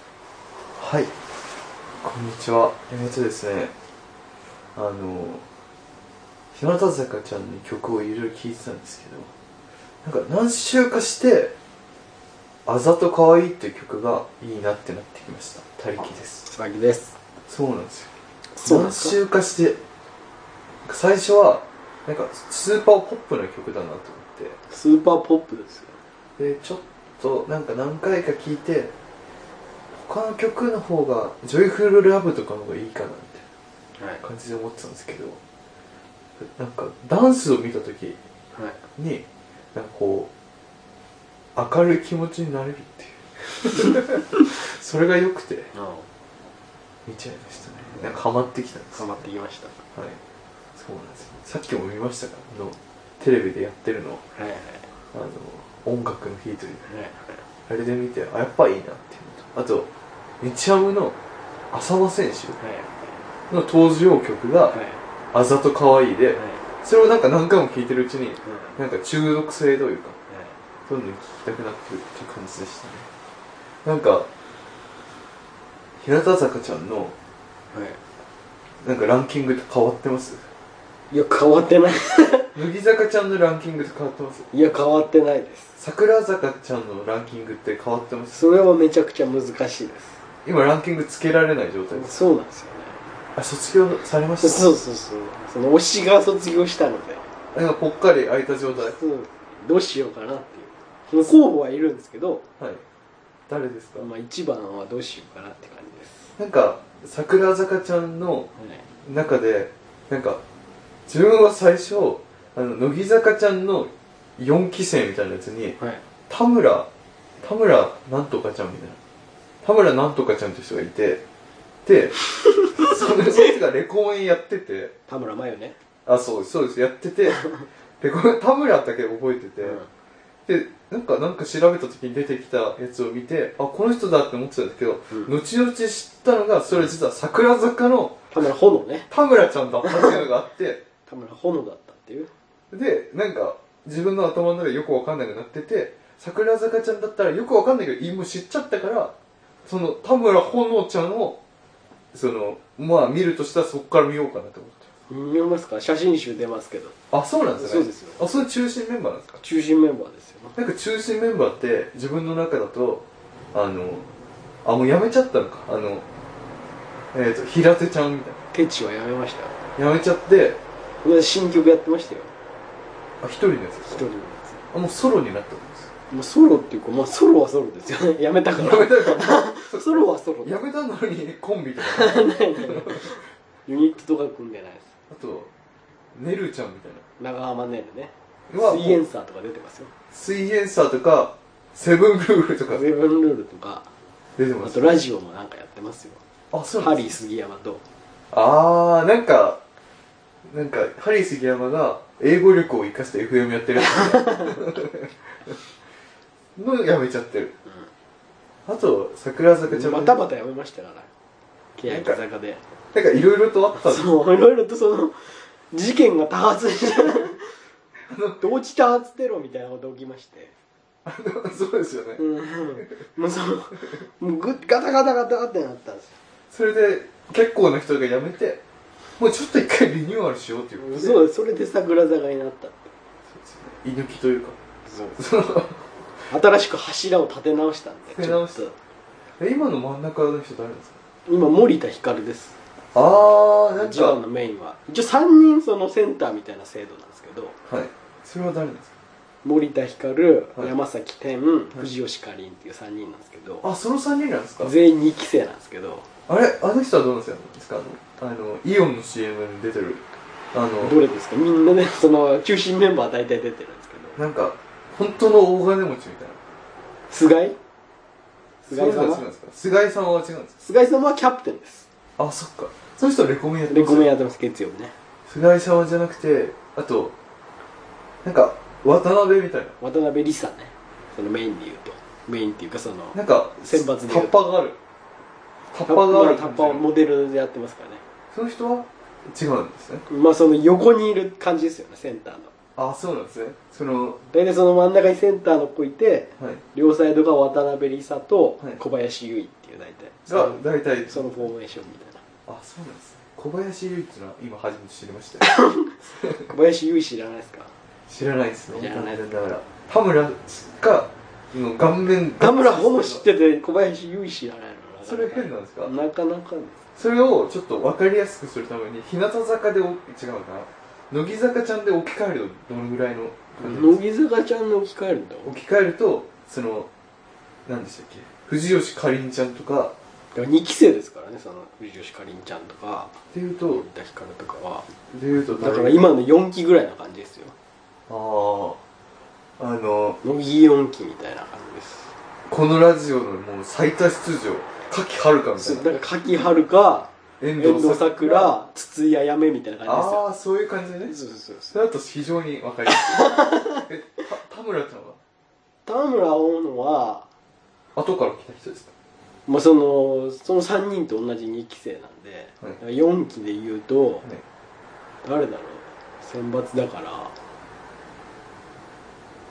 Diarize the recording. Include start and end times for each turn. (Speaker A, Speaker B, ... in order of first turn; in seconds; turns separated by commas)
Speaker A: 0.8-1.1, Speaker A: 2.0-3.7, Speaker A: 4.8-5.4, Speaker A: 6.5-9.3, Speaker A: 10.0-11.5, Speaker A: 12.7-16.5, Speaker B: 16.4-17.1, Speaker A: 17.5-18.1, Speaker B: 18.5-19.2, Speaker A: 18.6-19.8, Speaker A: 20.8-24.6, Speaker B: 24.7-26.0, Speaker A: 26.4-28.9, Speaker A: 30.0-33.4, Speaker B: 34.0-34.2, Speaker A: 34.2-35.4, Speaker A: 36.4-38.2, Speaker B: 38.5-38.8, Speaker A: 39.0-40.3, Speaker A: 41.5-45.7, Speaker B: 45.7-46.0, Speaker A: 47.0-49.1, Speaker B: 48.9-49.8, Speaker A: 49.9-50.2, Speaker A: 50.8-54.2, Speaker B: 54.3-54.9, Speaker A: 55.1-56.9, Speaker B: 56.9-57.4, Speaker A: 57.7-59.9, Speaker A: 60.4-61.2, Speaker A: 61.7-62.6, Speaker B: 62.6-63.2, Speaker A: 63.5-64.7, Speaker B: 64.7-65.0, Speaker A: 65.3-70.2, Speaker B: 66.3-66.6, Speaker B: 68.4-68.8, Speaker B: 70.3-70.6, Speaker A: 70.9-73.1, Speaker A: 73.8-74.3, Speaker A: 76.0-77.1, Speaker B: 77.7-78.0, Speaker A: 78.8-80.5, Speaker B: 81.1-82.5, Speaker A: 82.5-84.5, Speaker B: 84.5-85.7, Speaker A: 85.8-88.4, Speaker B: 88.3-90.2, Speaker A: 90.4-92.2, Speaker B: 91.9-93.0, Speaker A: 93.3-94.7, Speaker B: 94.4-97.3, Speaker A: 97.5-99.0, Speaker B: 98.8-102.4, Speaker A: 103.5-104.1, Speaker B: 104.0-106.3, Speaker A: 106.4-108.5, Speaker B: 108.6-108.8, Speaker A: 109.0-110.4, Speaker A: 111.1-115.8, Speaker A: 116.3-116.9, Speaker A: 117.4-119.0, Speaker A: 119.6-121.2, Speaker A: 121.8-124.9, Speaker B: 125.1-125.8, Speaker A: 126.0-129.8, Speaker A: 130.5-138.3, Speaker B: 138.3-139.1, Speaker A: 139.1-140.8, Speaker B: 139.8-140.2, Speaker B: 141.1-142.3, Speaker A: 142.7-149.1, Speaker A: 149.7-151.4, Speaker A: 152.1-154.9, Speaker B: 155.1-156.9, Speaker A: 157.1-159.4, Speaker B: 157.6-158.2, Speaker B: 159.4-160.6, Speaker A: 160.5-164.1, Speaker A: 164.6-166.1, Speaker A: 167.1-168.4, Speaker B: 168.5-169.6, Speaker A: 169.8-170.6, Speaker B: 171.0-172.3, Speaker A: 173.2-174.0, Speaker B: 173.8-174.6, Speaker A: 174.7-175.9, Speaker B: 176.1-180.6, Speaker A: 178.5-183.1, Speaker B: 181.8-184.9, Speaker A: 185.1-185.5, Speaker A: 186.1-187.0, Speaker B: 187.2-189.9, Speaker A: 188.5-189.0, Speaker A: 190.1-192.8, Speaker B: 192.7-193.8, Speaker A: 194.4-195.0, Speaker B: 194.6-196.2, Speaker A: 196.5-197.1, Speaker B: 196.8-197.8, Speaker A: 198.3-199.6, Speaker A: 200.5-205.6, Speaker B: 204.0-204.3, Speaker A: 206.6-207.5, Speaker A: 208.7-210.2, Speaker B: 209.7-211.1, Speaker B: 211.8-212.6, Speaker A: 211.8-212.2, Speaker A: 212.9-214.1, Speaker B: 213.7-217.5, Speaker A: 218.1-218.5, Speaker B: 218.4-220.5, Speaker A: 221.0-222.2, Speaker B: 222.2-226.1, Speaker A: 226.5-228.6, Speaker A: 229.2-231.2, Speaker B: 230.8-232.9, Speaker A: 233.3-234.6, Speaker B: 234.8-235.2, Speaker A: 235.2-235.9, Speaker B: 236.3-238.7, Speaker A: 238.1-238.7, Speaker A: 239.4-241.0, Speaker B: 241.2-242.6, Speaker A: 242.9-244.2, Speaker B: 243.8-247.6, Speaker A: 247.7-248.9, Speaker B: 249.4-253.7, Speaker A: 253.6-254.7, Speaker B: 254.6-256.1, Speaker A: 256.3-261.0, Speaker B: 260.8-264.2, Speaker A: 264.2-266.4, Speaker B: 267.1-267.6, Speaker B: 268.6-269.2, Speaker A: 268.7-270.6, Speaker B: 270.6-271.9, Speaker A: 272.2-274.1, Speaker B: 273.7-274.9, Speaker A: 275.3-277.1, Speaker A: 278.2-279.8, Speaker B: 279.8-284.3, Speaker A: 283.1-284.8, Speaker A: 285.7-286.9, Speaker B: 285.9-288.0, Speaker A: 288.3-290.1, Speaker B: 290.1-292.5, Speaker A: 292.8-294.2, Speaker B: 294.3-302.2, Speaker A: 300.3-301.5, Speaker A: 302.4-305.5, Speaker B: 305.4-307.7, Speaker A: 308.1-313.2, Speaker B: 308.7-309.2, Speaker B: 312.4-316.8, Speaker A: 315.0-315.9, Speaker A: 316.9-324.0, Speaker B: 323.6-325.5, Speaker A: 325.4-326.9, Speaker A: 327.6-329.9, Speaker B: 330.3-334.9, Speaker A: 333.3-333.8, Speaker A: 335.1-336.1, Speaker B: 335.6-337.5, Speaker A: 338.1-338.8, Speaker A: 339.6-340.2, Speaker B: 340.2-342.1, Speaker A: 342.5-345.9, Speaker B: 345.6-350.2, Speaker A: 347.4-348.5, Speaker A: 349.8-351.1, Speaker B: 351.1-351.7, Speaker A: 351.7-355.2, Speaker B: 352.9-353.8, Speaker B: 355.9-357.3, Speaker A: 357.9-358.9, Speaker B: 359.5-364.2, Speaker B: 365.2-367.3